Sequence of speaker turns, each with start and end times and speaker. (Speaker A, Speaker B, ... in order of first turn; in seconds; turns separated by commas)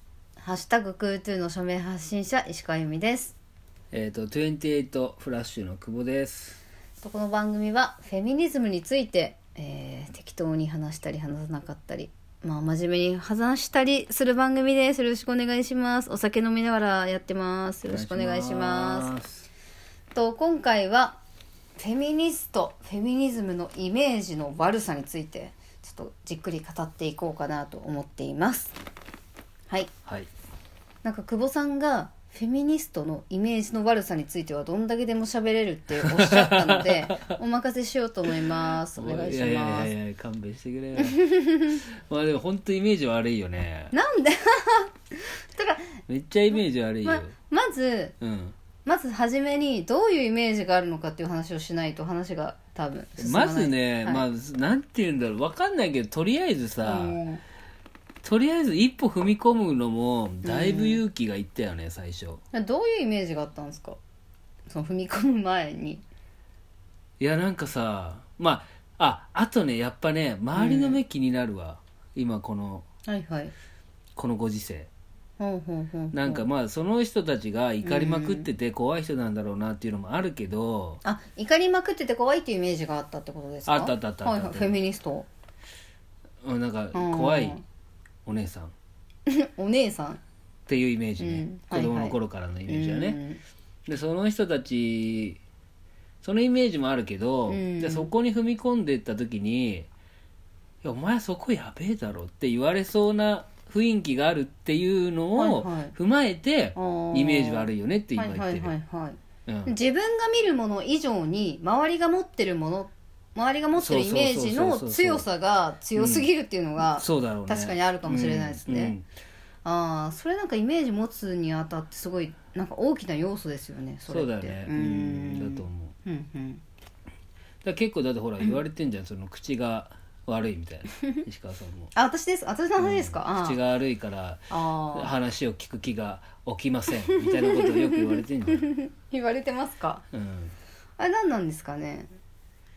Speaker A: 0.4-3.3, Speaker B: 3.9-6.6, Speaker A: 7.0-19.1, Speaker B: 17.9-19.5, Speaker A: 20.1-21.2, Speaker A: 21.8-28.7, Speaker A: 31.0-39.9, Speaker B: 36.0-37.3, Speaker B: 38.9-43.9, Speaker A: 41.0-41.8, Speaker A: 43.9-46.0, Speaker B: 46.1-47.3, Speaker A: 47.0-48.1, Speaker B: 48.2-48.5, Speaker A: 48.8-54.2, Speaker B: 53.2-57.2, Speaker A: 56.8-57.4, Speaker B: 58.2-62.4, Speaker A: 60.4-61.0, Speaker A: 62.5-64.0, Speaker A: 64.7-66.0, Speaker B: 67.2-72.8, Speaker A: 70.5-71.0, Speaker A: 73.1-73.5, Speaker B: 74.2-74.9, Speaker A: 75.4-76.4, Speaker B: 76.1-81.0, Speaker A: 77.8-78.5, Speaker A: 81.0-85.3, Speaker B: 83.7-84.8, Speaker B: 86.4-87.6, Speaker A: 86.9-87.6, Speaker B: 88.2-88.7, Speaker A: 89.3-90.2, Speaker B: 90.7-93.2, Speaker A: 91.2-93.4, Speaker B: 93.9-95.4, Speaker B: 96.2-99.9, Speaker A: 97.5-98.1, Speaker B: 100.8-108.7, Speaker A: 105.3-105.9, Speaker A: 106.8-118.9, Speaker B: 109.5-109.7, Speaker B: 113.8-115.2, Speaker B: 115.9-116.3, Speaker B: 116.8-119.0, Speaker A: 119.6-126.6, Speaker B: 124.1-125.9, Speaker B: 127.6-131.9, Speaker A: 131.9-133.6, Speaker B: 132.8-138.6, Speaker A: 134.5-135.1, Speaker A: 137.1-140.0, Speaker B: 140.1-140.5, Speaker A: 141.0-142.1